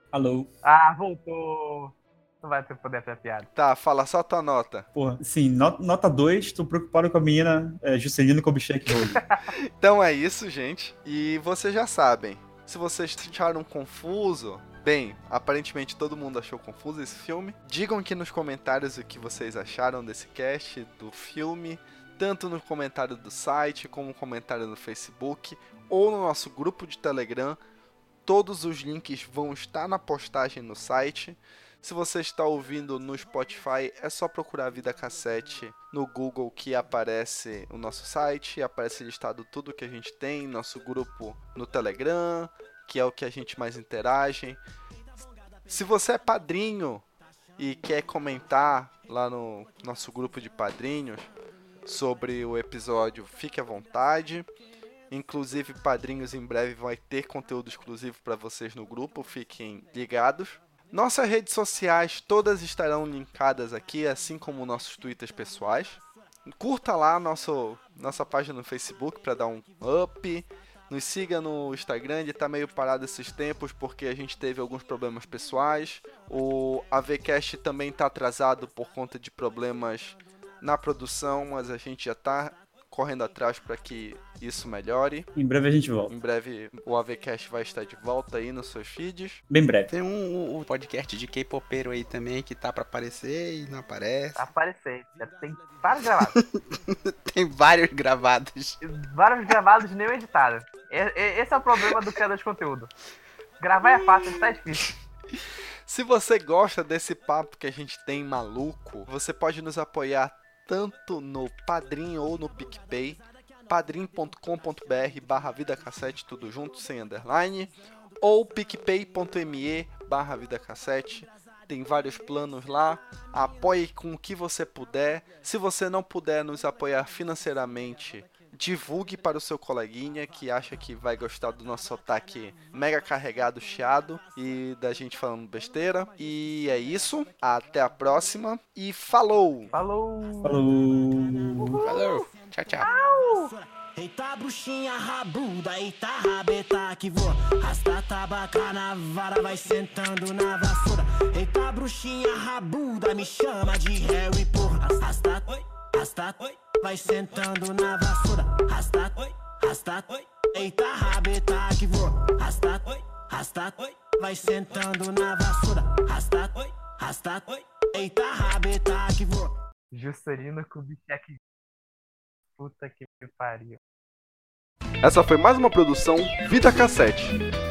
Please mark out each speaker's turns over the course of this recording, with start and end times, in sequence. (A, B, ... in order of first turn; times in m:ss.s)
0:00.1-0:00.5 A
0:00.6-0:03.5 B
0:03.5-0:04.9 C
0:04.9-0:09.2 A
0:09.2-0:09.5 B
0:09.8-0:27.6 C
0:28.2-0:44.6 C
0:45.7-0:47.0 C
0:47.6-0:51.3 C
0:51.8-0:54.5 C
0:55.1-1:25.3 C
1:25.3-1:26.1 A
1:26.1-1:29.4 C
1:29.5-1:29.9 A
1:29.9-1:34.4 D
1:34.4-1:36.4 B
1:36.2-1:36.6 D
1:37.3-1:38.8 D
1:38.8-1:42.9 B
1:41.8-1:42.1 D
1:43.6-1:44.9 B
1:43.9-1:44.4 D
1:45.9-2:19.7 C
2:19.7-2:20.6 B
2:20.4-2:21.8 A
2:21.6-2:22.3 B
2:21.8-2:22.9 D
2:22.7-2:49.5 E
2:22.8-2:23.5 B
2:49.9-2:51.4 B
2:52.6-2:53.8 B
2:55.0-2:57.4 C